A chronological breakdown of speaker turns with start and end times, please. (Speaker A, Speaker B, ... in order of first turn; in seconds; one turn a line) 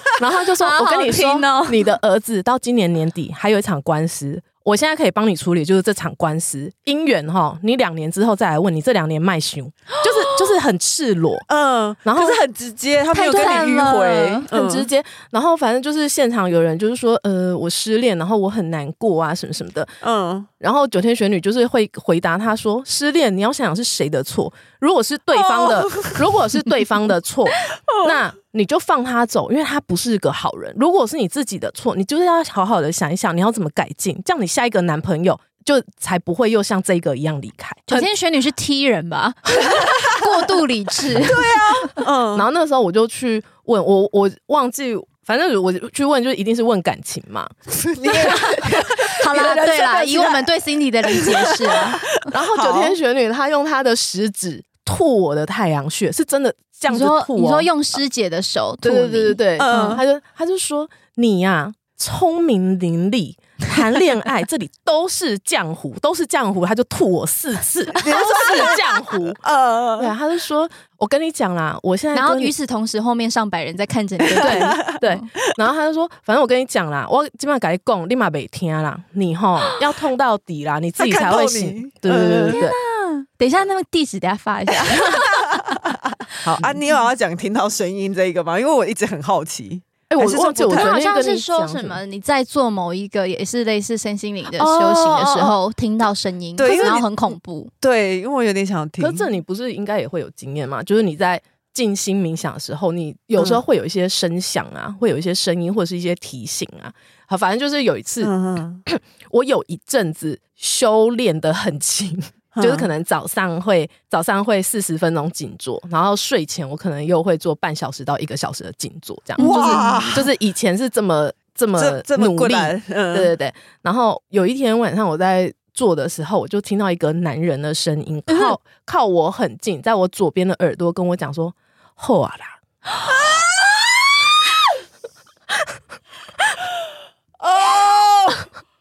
Speaker A: 0.1-11.5
Speaker B: 0.6-1.9
Speaker C: 11.5-14.9
Speaker A: 12.0-12.4
Speaker B: 13.1-14.5
Speaker A: 14.5-19.9
Speaker C: 20.0-20.5
Speaker A: 20.6-38.1
Speaker C: 25.4-26.2
Speaker C: 27.9-28.2
Speaker B: 37.9-41.5
Speaker C: 41.2-42.4
Speaker A: 42.3-47.5
Speaker C: 47.7-50.5
Speaker B: 48.0-52.0
Speaker C: 51.1-53.0
Speaker A: 52.3-57.7
Speaker B: 56.9-60.0
Speaker A: 58.8-69.4
Speaker C: 59.6-60.0
Speaker C: 68.0-70.1
Speaker B: 68.3-68.8
Speaker A: 70.0-72.5
Speaker B: 72.1-75.2
Speaker C: 74.3-74.8
Speaker A: 74.4-82.8
Speaker C: 81.0-82.6
Speaker B: 82.5-85.5
Speaker C: 84.9-90.9
Speaker A: 90.1-92.0
Speaker B: 90.6-97.7
Speaker A: 94.6-95.5
Speaker C: 96.6-97.1
Speaker C: 97.8-99.3
Speaker A: 99.0-108.3
Speaker C: 103.4-103.6
Speaker C: 108.2-108.8
Speaker A: 108.8-132.6
Speaker C: 112.5-112.9
Speaker B: 119.4-120.1
Speaker C: 119.4-120.3
Speaker C: 121.8-123.3
Speaker C: 133.1-134.3
Speaker C: 137.4-138.5